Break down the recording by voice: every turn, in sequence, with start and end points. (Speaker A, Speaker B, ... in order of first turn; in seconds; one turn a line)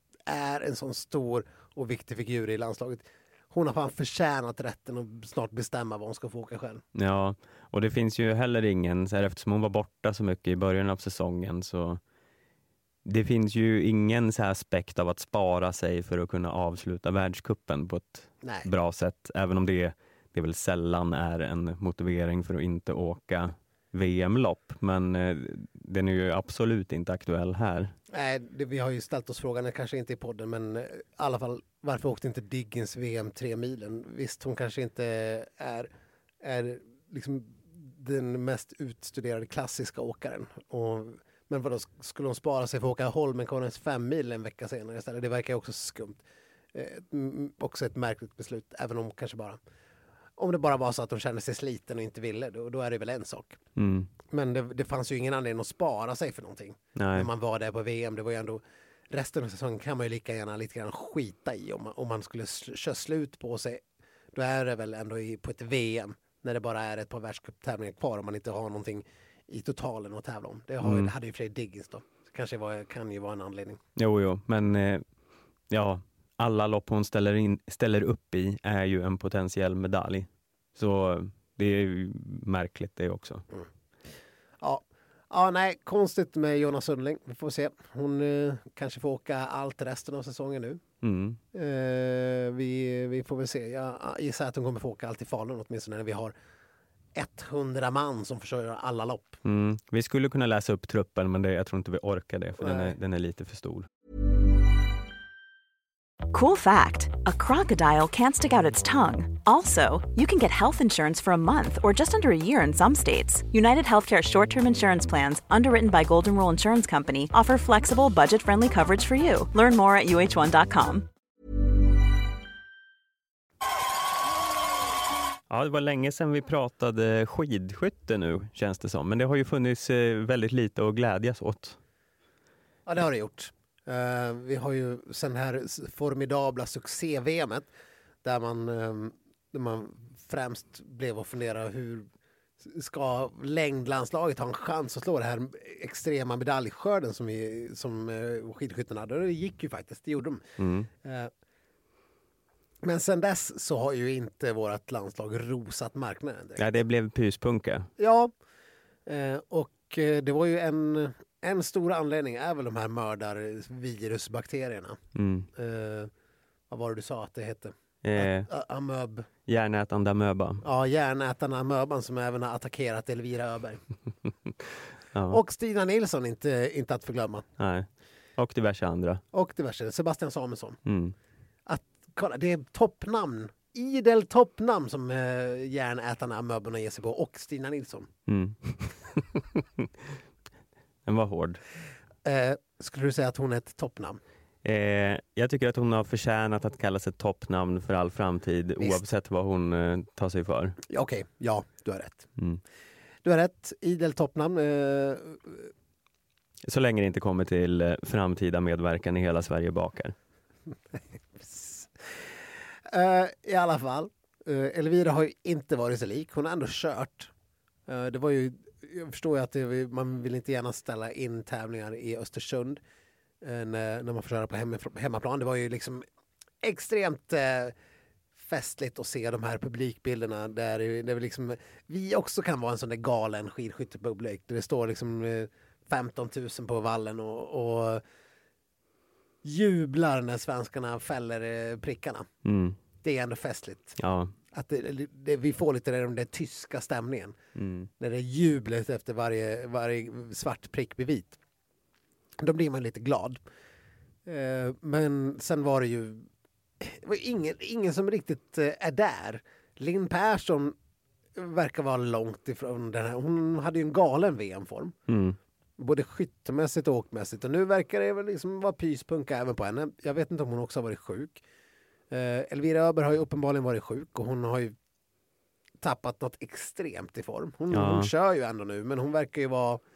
Speaker A: 0.3-6.8
Speaker B: 6.9-12.0
Speaker B: 13.0-27.9
Speaker A: 18.4-18.7
Speaker A: 28.1-35.9
Speaker A: 36.4-46.2
Speaker A: 46.7-49.6
Speaker A: 50.4-53.6
Speaker B: 53.8-54.1
Speaker A: 54.3-63.8
Speaker B: 57.0-57.3
Speaker A: 64.3-73.8
Speaker B: 70.8-71.1
Speaker B: 74.0-75.0
Speaker B: 75.7-83.5
Speaker A: 84.6-90.8
Speaker B: 91.0-91.4
Speaker A: 91.5-96.3
Speaker A: 97.1-99.4
Speaker B: 99.4-103.9
Speaker A: 102.6-102.9
Speaker C: 106.3-121.1
Speaker B: 125.5-131.8
Speaker A: 132.8-137.7
Speaker A: 138.2-142.1
Speaker A: 142.6-150.4
Speaker B: 150.6-150.9
Speaker A: 151.0-151.3
Speaker A: 152.8-156.6
Speaker B: 156.6-157.9
Speaker A: 158.0-158.3
Speaker A: 159.1-165.0
Speaker B: 165.1-165.5
Speaker A: 165.6-166.1
Speaker A: 166.7-169.3
Speaker B: 168.0-168.5
Speaker B: 169.5-170.6
Speaker A: 170.6-173.8
Speaker B: 175.1-175.4
Speaker A: 175.3-177.4
Speaker B: 177.6-179.2
Speaker A: 179.3-180.8
Speaker B: 180.8-181.1
Speaker A: 181.7-188.1
Speaker B: 188.3-190.2
Speaker B: 191.1-191.6
Speaker A: 192.2-194.2
Speaker B: 194.6-200.8
Speaker A: 200.9-202.3
Speaker A: 203.2-205.7
Speaker B: 206.6-210.1
Speaker A: 211.3-212.3
Speaker A: 212.9-217.3
Speaker A: 217.9-222.8
Speaker A: 223.4-226.0
Speaker A: 226.6-227.7
Speaker A: 228.3-238.0
Speaker A: 239.4-242.3
Speaker B: 242.4-242.8
Speaker A: 243.0-244.0
Speaker B: 244.0-244.3
Speaker A: 244.5-247.3
Speaker B: 247.6-247.9
Speaker A: 248.0-251.4
Speaker A: 252.4-253.4
Speaker A: 254.2-256.3
Speaker A: 256.8-260.7
Speaker A: 261.4-264.9
Speaker B: 265.1-265.4
Speaker A: 265.8-271.4
Speaker A: 272.1-274.7
Speaker A: 275.8-279.8
Speaker B: 277.7-278.1